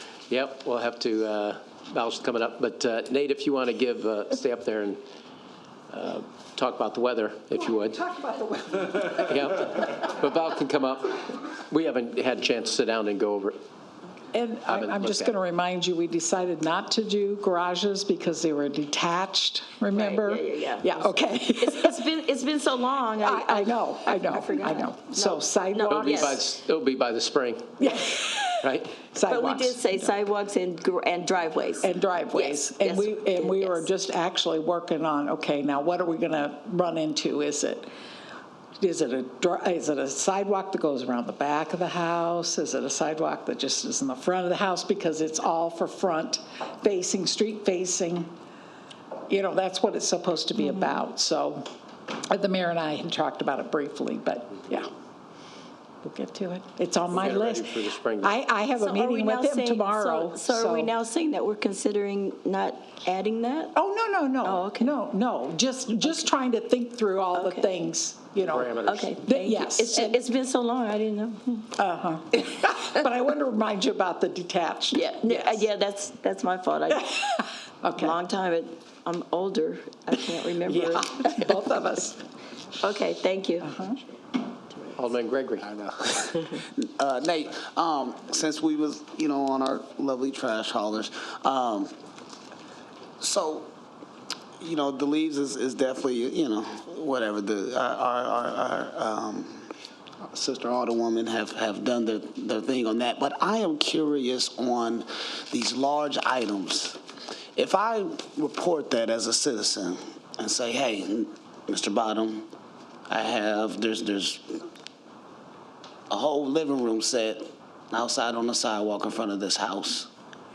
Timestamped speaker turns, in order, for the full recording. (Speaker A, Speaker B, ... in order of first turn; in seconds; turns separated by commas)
Speaker A: 0.3-5.0, Speaker A: 5.9-8.0, Speaker B: 8.0-8.9, Speaker A: 8.9-13.6, Speaker B: 14.3-22.1, Speaker A: 14.7-15.4, Speaker C: 19.9-26.4, Speaker B: 23.2-26.4, Speaker A: 25.9-27.8, Speaker B: 27.8-30.1, Speaker A: 28.6-29.0, Speaker C: 29.2-33.9, Speaker B: 31.8-37.9, Speaker B: 38.8-48.3, Speaker B: 49.3-51.7, Speaker C: 50.6-51.1, Speaker B: 52.3-54.9, Speaker B: 56.0-60.9, Speaker A: 57.1-58.4, Speaker C: 58.8-63.8, Speaker B: 63.8-70.2, Speaker C: 64.4-64.9, Speaker C: 67.3-67.7, Speaker A: 68.5-69.1, Speaker C: 68.8-71.7, Speaker B: 71.8-75.6, Speaker C: 74.9-81.6, Speaker B: 77.8-78.2, Speaker B: 80.6-82.2, Speaker C: 82.8-83.7, Speaker B: 83.6-84.0, Speaker C: 84.7-85.1, Speaker A: 85.0-85.8, Speaker C: 86.3-86.6, Speaker D: 86.8-91.9, Speaker D: 93.2-93.7, Speaker D: 94.6-99.7, Speaker D: 100.2-107.0, Speaker D: 107.6-112.5, Speaker D: 113.1-114.6, Speaker D: 116.1-120.1